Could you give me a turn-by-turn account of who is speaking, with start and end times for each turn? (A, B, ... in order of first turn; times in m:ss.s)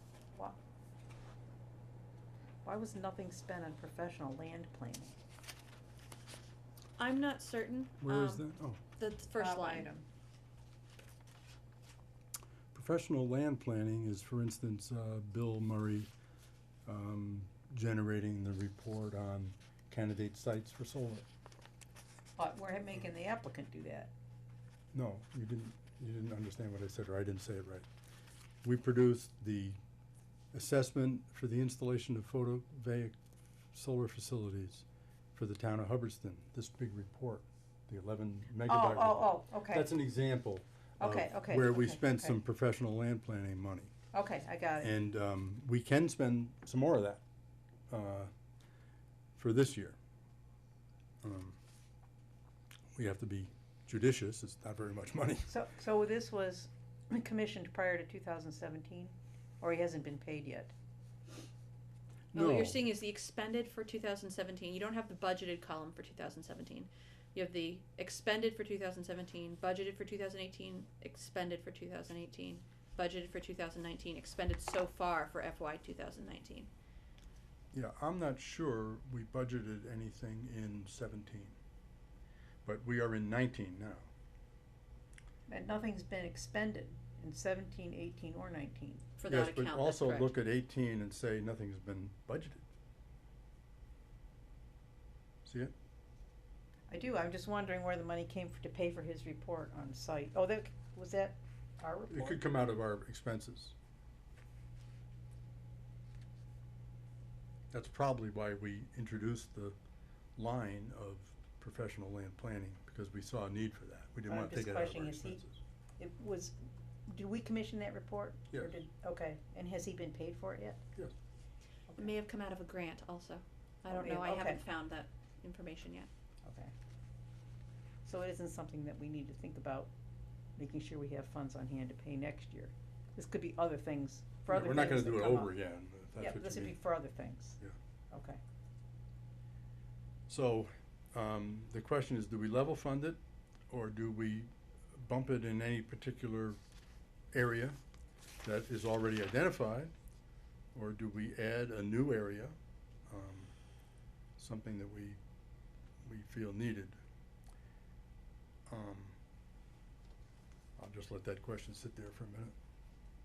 0:02.6-0:05.2 A
0:07.0-0:09.9 B
0:08.0-0:08.8 C
0:09.3-0:10.0 A
0:12.7-0:16.1 C
0:16.8-0:21.2 C
0:22.4-0:24.1 A
0:24.9-0:27.8 C
0:28.6-0:29.8 C
0:30.5-0:33.1 C
0:33.7-0:43.9 C
0:38.6-0:39.9 A
0:41.0-0:42.4 A
0:44.1-0:44.9 A
0:44.8-0:47.2 C
0:47.9-0:48.3 C
0:49.4-0:50.0 C
0:51.2-0:51.6 C
0:52.9-0:55.5 C
0:55.5-1:00.7 A
1:02.3-1:02.8 C
1:02.3-1:16.7 B
1:17.7-1:21.6 C
1:22.6-1:24.1 C
1:25.5-1:29.0 A
1:29.2-1:30.3 B
1:29.3-1:32.6 C
1:35.4-1:35.7 C
1:36.9-1:42.4 A
1:42.1-1:43.7 C
1:47.7-1:49.8 C
1:50.4-1:55.6 C
1:54.3-1:55.4 A
1:56.0-1:56.6 A
1:57.1-2:00.8 A
1:58.5-1:58.8 C
2:01.9-2:06.1 B
2:03.9-2:04.6 A
2:06.4-2:06.7 A
2:08.0-2:09.9 A
2:10.6-2:15.5 A
2:14.5-2:16.8 C
2:16.2-2:17.6 A
2:18.1-2:18.4 A
2:20.3-2:23.2 C
2:23.7-2:26.6 C
2:27.3-2:27.8 C
2:28.4-2:29.9 C
2:30.7-2:32.6 C
2:33.1-2:33.5 C
2:34.4-2:35.2 C
2:36.0-2:37.0 C
2:38.7-2:39.2 C
2:40.8-2:42.5 C